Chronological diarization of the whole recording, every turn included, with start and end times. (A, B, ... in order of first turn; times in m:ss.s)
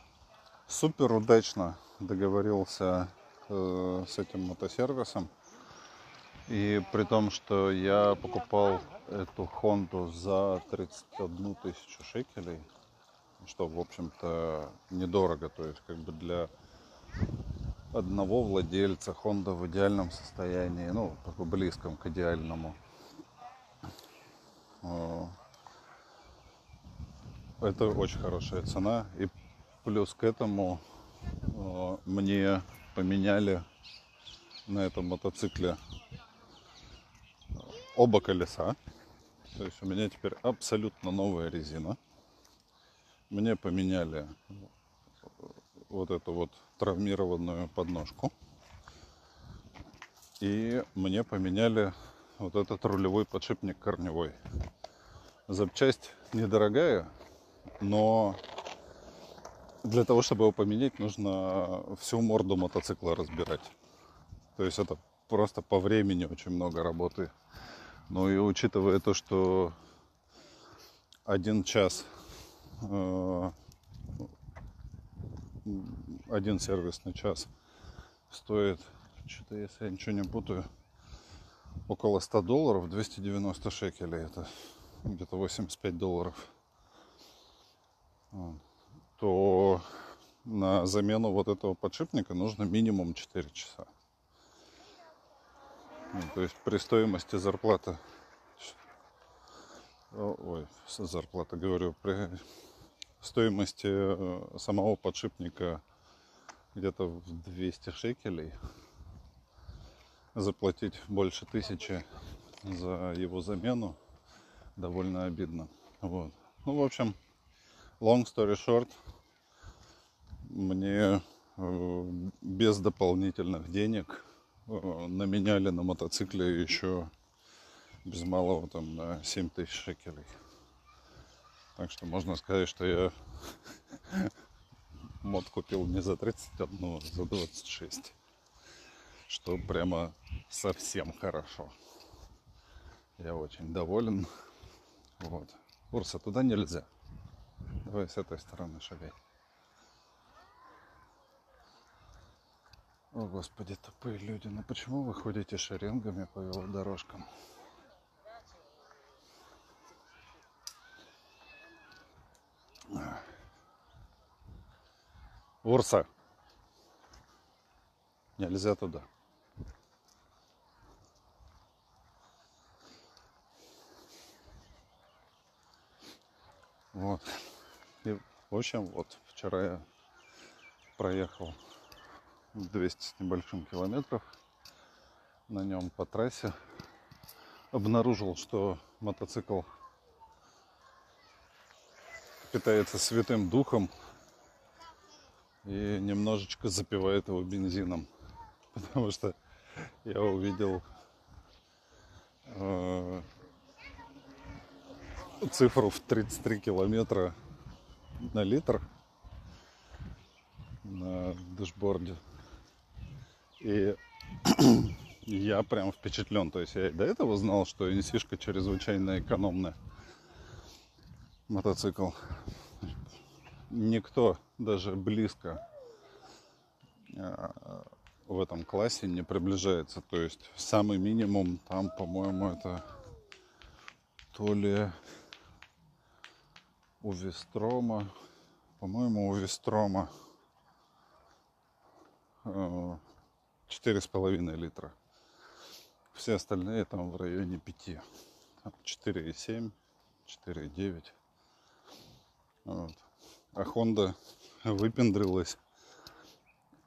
0:00.7-0:05.3 A
0:06.5-0:12.7 A
0:13.4-0:16.5 A
0:17.9-0:22.8 A
0:24.8-0:25.4 A
0:27.6-0:29.3 A
0:29.8-0:33.6 A
0:34.6-0:35.8 A
0:37.6-0:38.8 A
0:39.5-0:42.0 A
0:43.3-0:44.7 A
0:45.4-0:48.3 A
0:50.4-0:54.4 A
0:55.5-0:57.1 A
0:57.8-0:58.4 A
0:59.8-1:03.7 A
1:04.6-1:07.3 A
1:08.1-1:09.8 A
1:11.2-1:12.1 A
1:12.7-1:13.5 A
1:15.6-1:17.5 A
1:18.3-1:20.7 A
1:21.9-1:26.5 A
1:28.3-1:28.6 A
1:29.2-1:29.9 A
1:30.4-1:33.9 A
1:36.1-1:38.0 A
1:40.1-1:42.4 A
1:43.2-1:45.8 A
1:46.7-1:48.5 A
1:50.3-1:52.1 A
1:52.6-1:54.0 A
1:54.8-1:57.2 A
1:58.0-1:59.0 A
2:00.4-2:07.1 A
2:08.0-2:10.3 A
2:11.8-2:14.3 A
2:15.2-2:18.1 A
2:19.3-2:21.7 A
2:23.2-2:24.3 A
2:25.2-2:26.9 A
2:27.8-2:29.2 A
2:33.1-2:37.3 A
2:42.9-2:43.2 A
2:45.6-2:46.1 A
2:48.4-2:49.1 A
2:56.9-2:57.5 A
2:58.0-2:59.8 A
3:01.0-3:01.6 A
3:02.5-3:04.3 A
3:05.5-3:06.5 A
3:07.7-3:09.7 A
3:12.5-3:13.9 A
3:15.6-3:18.1 A
3:18.7-3:20.8 A
3:22.4-3:23.3 A
3:25.3-3:27.4 A
3:28.2-3:28.9 A
3:30.8-3:32.2 A
3:33.6-3:39.8 A
3:41.5-3:43.0 A
3:43.7-3:45.6 A
3:47.1-3:53.0 A
3:54.3-3:55.0 A
3:57.0-3:58.1 A
3:58.8-4:00.1 A
4:02.4-4:03.0 A
4:03.7-4:04.9 A
4:06.1-4:08.0 A
4:08.6-4:11.1 A
4:12.6-4:15.6 A